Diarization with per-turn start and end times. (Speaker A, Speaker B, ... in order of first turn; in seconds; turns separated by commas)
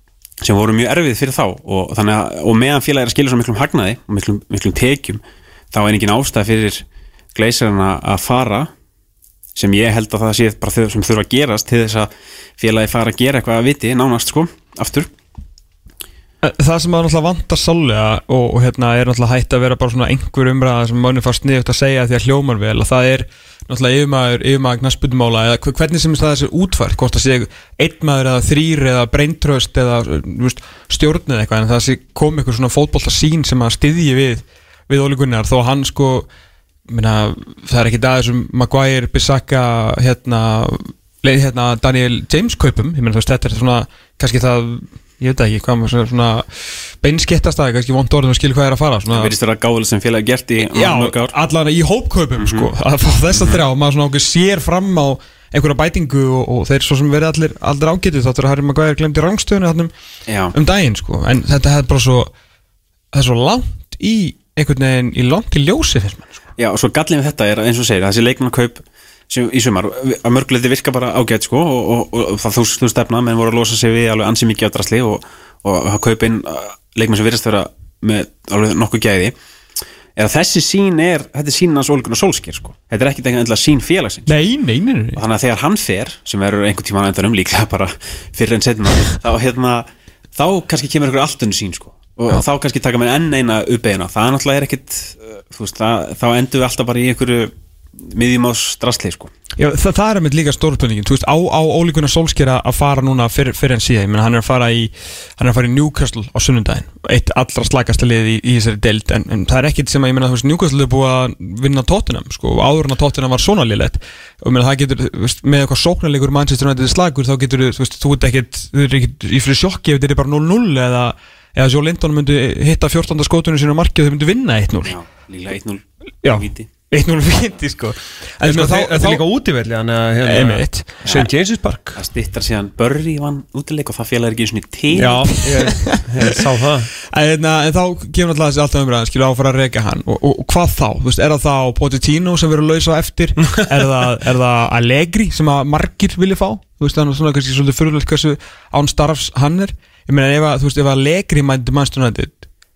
Speaker A: 0.4-8.7, Speaker A: 9.6-15.1, Speaker B: 16.4-36.3, Speaker B: 36.9-46.5, Speaker B: 47.0-49.3, Speaker A: 49.1-51.3, Speaker B: 50.7-59.9, Speaker A: 52.4-52.7, Speaker A: 53.3-53.6, Speaker A: 60.3-60.5, Speaker B: 60.5-62.3, Speaker B: 63.1-66.3, Speaker A: 66.6-79.3, Speaker A: 80.2-84.3, Speaker B: 84.3-85.2, Speaker A: 85.2-99.3, Speaker B: 99.6-124.9, Speaker A: 124.8-126.7, Speaker B: 126.2-129.2, Speaker C: 128.4-132.0, Speaker B: 130.2-131.1, Speaker A: 131.9-135.3, Speaker C: 134.9-136.9, Speaker B: 135.4-136.0, Speaker B: 137.0-152.4